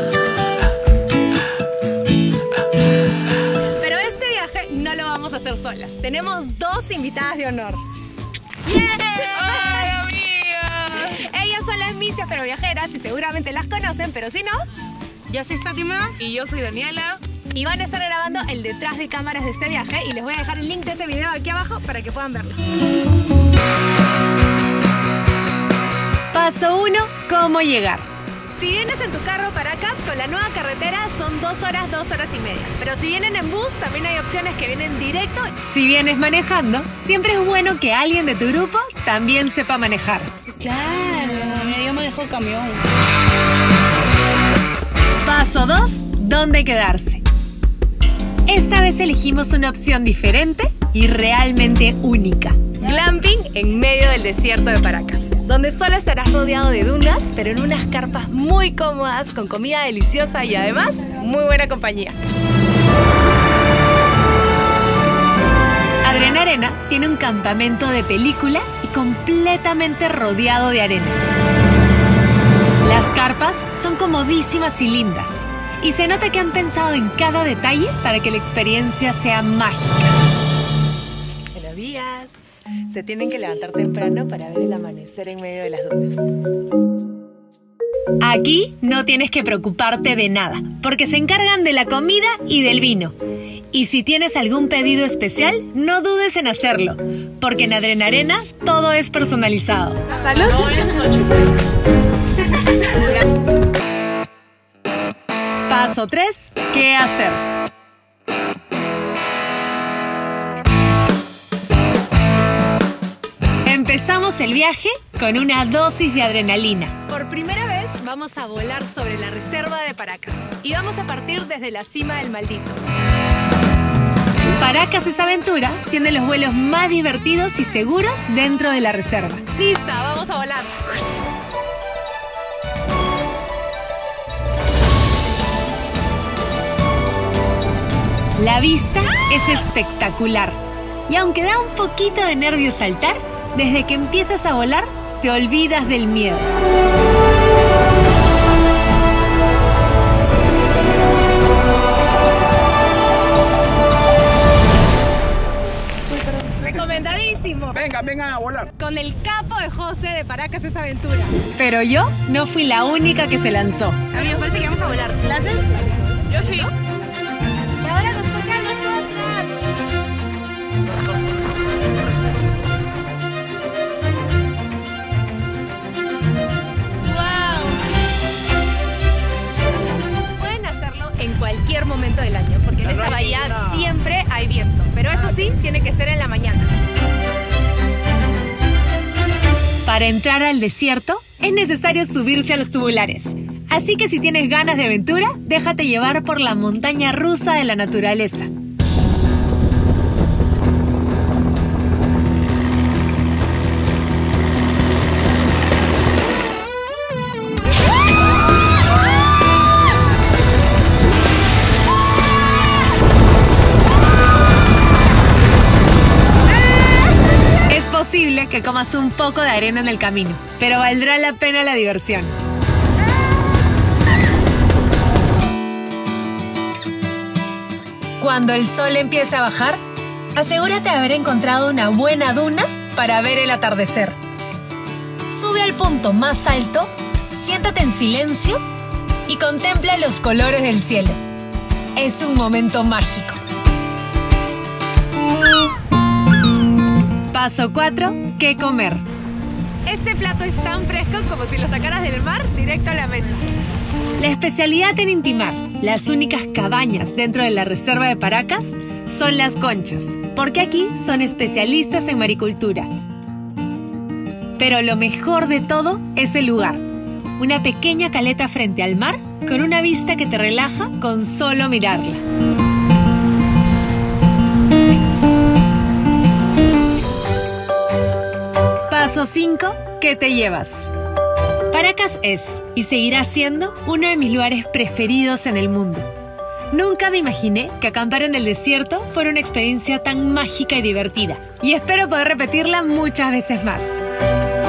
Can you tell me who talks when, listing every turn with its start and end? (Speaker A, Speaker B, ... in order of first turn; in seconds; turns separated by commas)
Speaker A: 3.7-7.8, Speaker A: 8.6-10.1, Speaker B: 9.6-11.0, Speaker A: 10.9-14.7, Speaker B: 15.3-17.2, Speaker A: 17.5-22.6, Speaker A: 26.3-28.1, Speaker A: 28.6-40.3, Speaker B: 40.5-42.8, Speaker A: 45.2-47.2, Speaker A: 48.5-62.2, Speaker A: 66.0-71.2, Speaker A: 72.8-80.2, Speaker A: 81.5-82.4, Speaker A: 82.9-86.3, Speaker A: 88.2-93.2, Speaker A: 93.7-101.1, Speaker B: 100.7-101.4, Speaker A: 102.8-103.1, Speaker A: 105.7-107.4, Speaker A: 113.7-122.8, Speaker A: 124.5-131.2, Speaker A: 138.4-146.5, Speaker A: 156.4-158.0, Speaker A: 158.7-165.3, Speaker B: 164.3-166.7, Speaker A: 167.8-169.5, Speaker B: 168.1-169.5, Speaker A: 177.0-177.8, Speaker A: 180.3-186.7, Speaker A: 189.8-198.5, Speaker A: 217.7-222.3, Speaker A: 228.2-229.8, Speaker A: 230.3-234.2, Speaker A: 235.3-238.6, Speaker A: 239.3-241.2, Speaker A: 242.0-243.4, Speaker A: 247.3-249.0, Speaker A: 249.9-253.5, Speaker A: 254.2-262.9, Speaker A: 264.6-266.8, Speaker A: 267.4-272.2, Speaker A: 278.9-280.9, Speaker A: 281.7-286.1, Speaker A: 286.7-294.0